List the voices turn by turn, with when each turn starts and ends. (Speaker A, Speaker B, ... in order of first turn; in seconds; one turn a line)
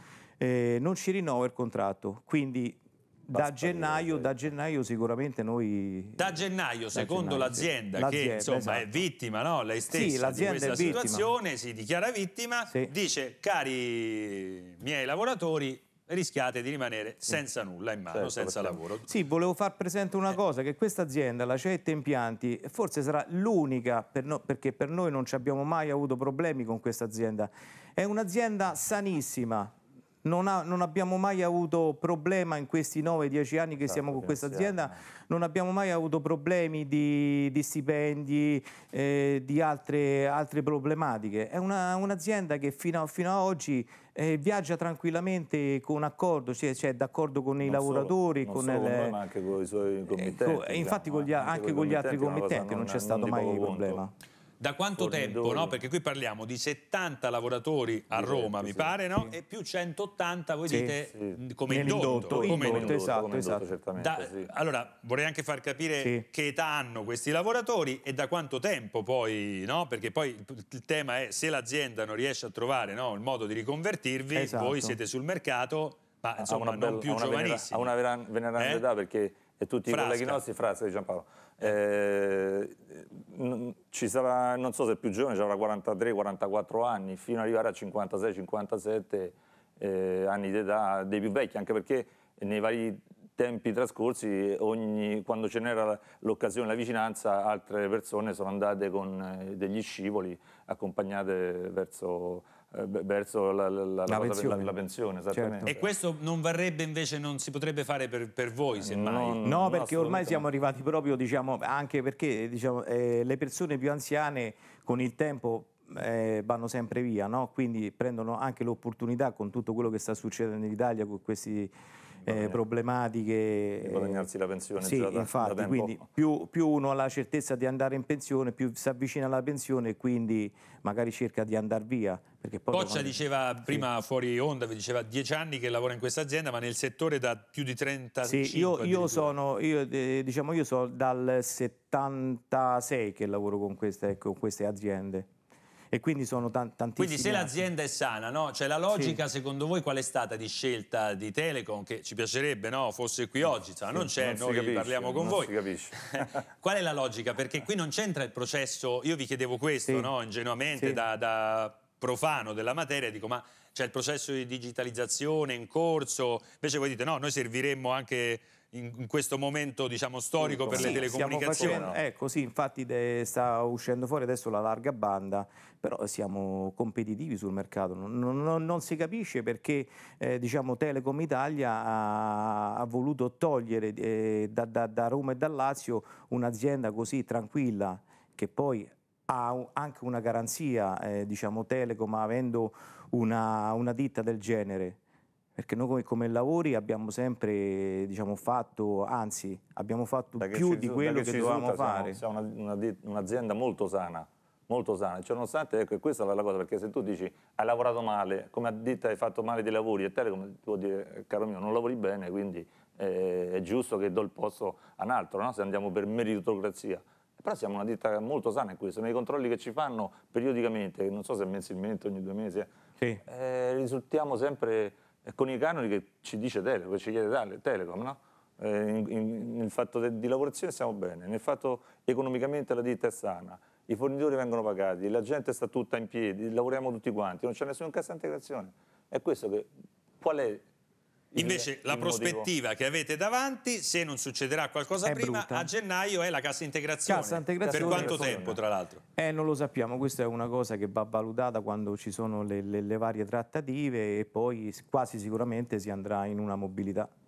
Speaker A: 0.4-9.0
Speaker B: 3.3-4.4
Speaker C: 6.2-19.1
Speaker A: 9.9-11.3
Speaker B: 10.5-10.9
Speaker B: 18.1-18.8
Speaker A: 19.1-49.2
Speaker B: 33.9-35.0
Speaker B: 47.6-54.0
Speaker A: 50.1-54.1
Speaker C: 54.6-63.0
Speaker B: 55.0-55.7
Speaker B: 58.1-59.0
Speaker A: 60.7-60.9
Speaker B: 61.1-61.4
Speaker A: 61.7-63.7
Speaker B: 62.3-64.5
Speaker C: 64.0-77.9
Speaker A: 74.3-75.0
Speaker B: 76.4-105.9
Speaker C: 78.6-78.8
Speaker C: 79.9-80.4
Speaker A: 104.1-104.7
Speaker A: 105.3-105.6
Speaker C: 105.7-109.8
Speaker B: 108.8-110.4
Speaker A: 109.4-121.7
Speaker B: 122.2-122.6
Speaker A: 122.2-124.3
Speaker B: 123.8-126.0
Speaker A: 124.8-133.8
Speaker C: 132.7-139.3
Speaker A: 138.2-145.3
Speaker A: 145.9-147.7
Speaker C: 147.0-171.9
Speaker A: 148.9-149.2
Speaker B: 153.9-156.4
Speaker B: 170.4-172.0
Speaker A: 170.7-195.0
Speaker A: 195.6-202.2
Speaker B: 200.4-222.7
Speaker B: 223.2-239.7
Speaker B: 240.2-240.6
Speaker B: 241.3-242.5
Speaker C: 241.3-249.0
Speaker A: 245.0-245.7
Speaker A: 247.1-248.4
Speaker B: 247.6-248.6
Speaker A: 249.2-257.1